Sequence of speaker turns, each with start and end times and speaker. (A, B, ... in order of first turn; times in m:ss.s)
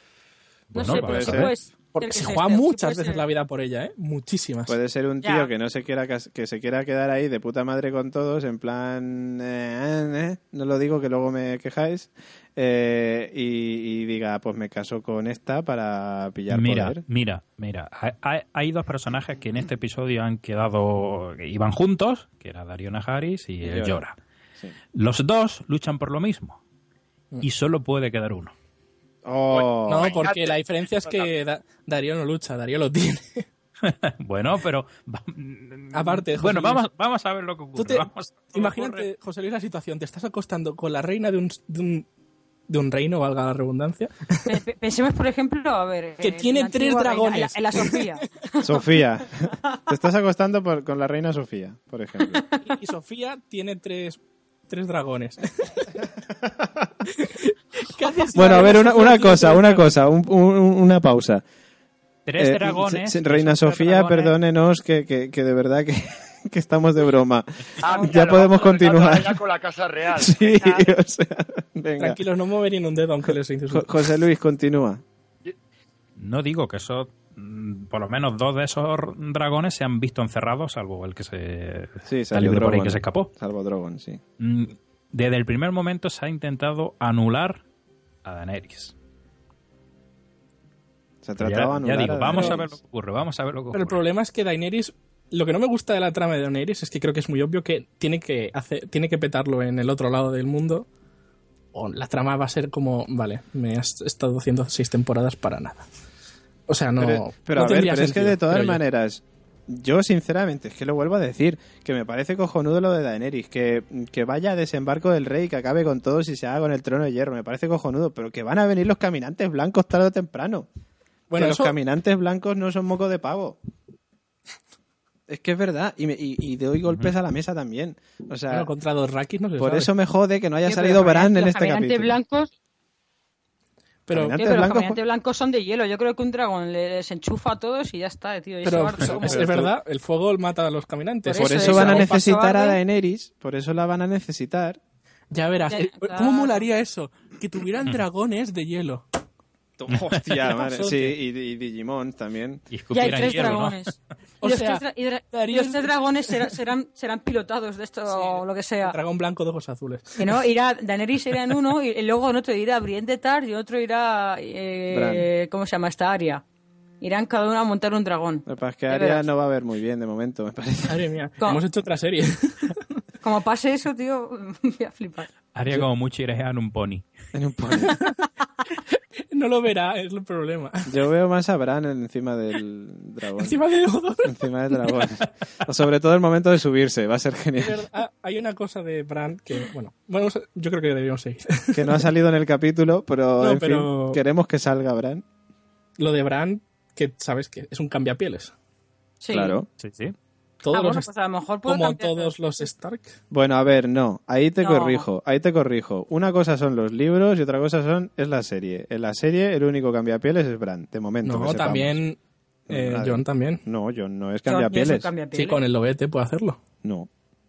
0:00.7-0:01.5 A
0:00.7-0:03.2 B
0:00.8-0:01.5 C
0:01.9-0:04.8 D
0:04.7-0:17.0 C
0:05.2-0:05.5 B
0:16.5-0:24.2 A
0:23.6-0:24.0 C
0:24.9-0:26.6 A
0:27.4-0:28.5 A
0:29.2-0:30.2 C
0:29.5-0:31.3 E
0:29.8-0:33.4 D
0:33.8-0:39.0 A
0:35.9-0:36.8 D
0:37.8-0:42.1 D
0:42.7-0:44.6 D
0:44.4-0:48.6 B
0:46.2-0:48.2 D
0:48.6-0:52.4 C
0:52.6-0:56.0 D
0:56.4-0:56.9 C
0:57.1-0:59.9 D
0:58.3-1:01.4 C
1:02.2-1:04.3 A
1:02.4-1:09.4 C
1:07.8-1:10.6 E
1:07.8-1:08.2 B
1:10.1-1:12.2 C
1:12.0-1:13.9 D
1:13.3-1:15.0 C
1:16.2-1:23.3 A
1:22.0-1:24.2 C
1:24.4-1:27.6 A
1:28.2-1:28.9 A
1:31.2-1:32.8 C
1:31.4-1:34.0 A
1:32.3-1:32.6 D
1:33.7-1:40.8 D
1:41.7-1:45.9 D
1:46.7-1:48.8 D
1:47.0-2:00.7 C
2:01.3-2:01.7 D
2:01.3-2:03.6 C
2:05.3-2:08.7 C
2:06.9-2:07.1 A
2:08.5-2:09.9 D
2:09.6-2:12.2 C
2:10.6-2:12.5 B
2:14.1-2:14.4 D
2:14.1-2:15.0 C
2:14.3-2:19.4 B
2:18.6-2:22.2 D
2:19.2-2:19.7 C
2:21.2-2:22.8 B
2:21.4-2:24.8 C
2:25.3-2:29.0 D
2:25.7-2:26.6 B
2:29.8-2:32.6 C
2:29.9-2:30.2 A
2:30.6-2:31.2 D
2:32.7-2:33.9 A
2:32.9-2:39.0 B
2:34.4-2:36.3 D
2:38.1-2:40.4 D
2:40.2-2:46.4 B
2:44.9-2:45.3 C
2:47.0-2:49.2 B
2:48.4-2:51.0 C
2:50.9-2:52.8 D
2:53.2-2:55.3 B
2:55.5-2:57.1 A
2:57.3-2:57.9 C
2:57.8-2:58.2 D
2:59.3-3:00.9 D
3:00.9-3:03.6 C
3:03.4-3:04.4 D
3:04.2-3:07.8 C
3:07.6-3:12.0 D
3:11.7-3:15.2 C
3:13.4-3:14.2 D
3:16.0-3:18.5 D
3:19.2-3:19.6 B
3:19.3-3:19.7 C
3:19.8-3:20.1 A
3:20.6-3:21.1 D
3:20.7-3:22.7 B
3:21.6-3:23.2 D
3:23.3-3:32.0 C
3:24.6-3:25.0 B
3:31.2-3:32.2 D
3:32.7-3:35.1 C
3:32.7-3:33.6 D
3:34.4-3:35.6 B
3:35.3-3:36.6 D
3:36.8-3:37.1 C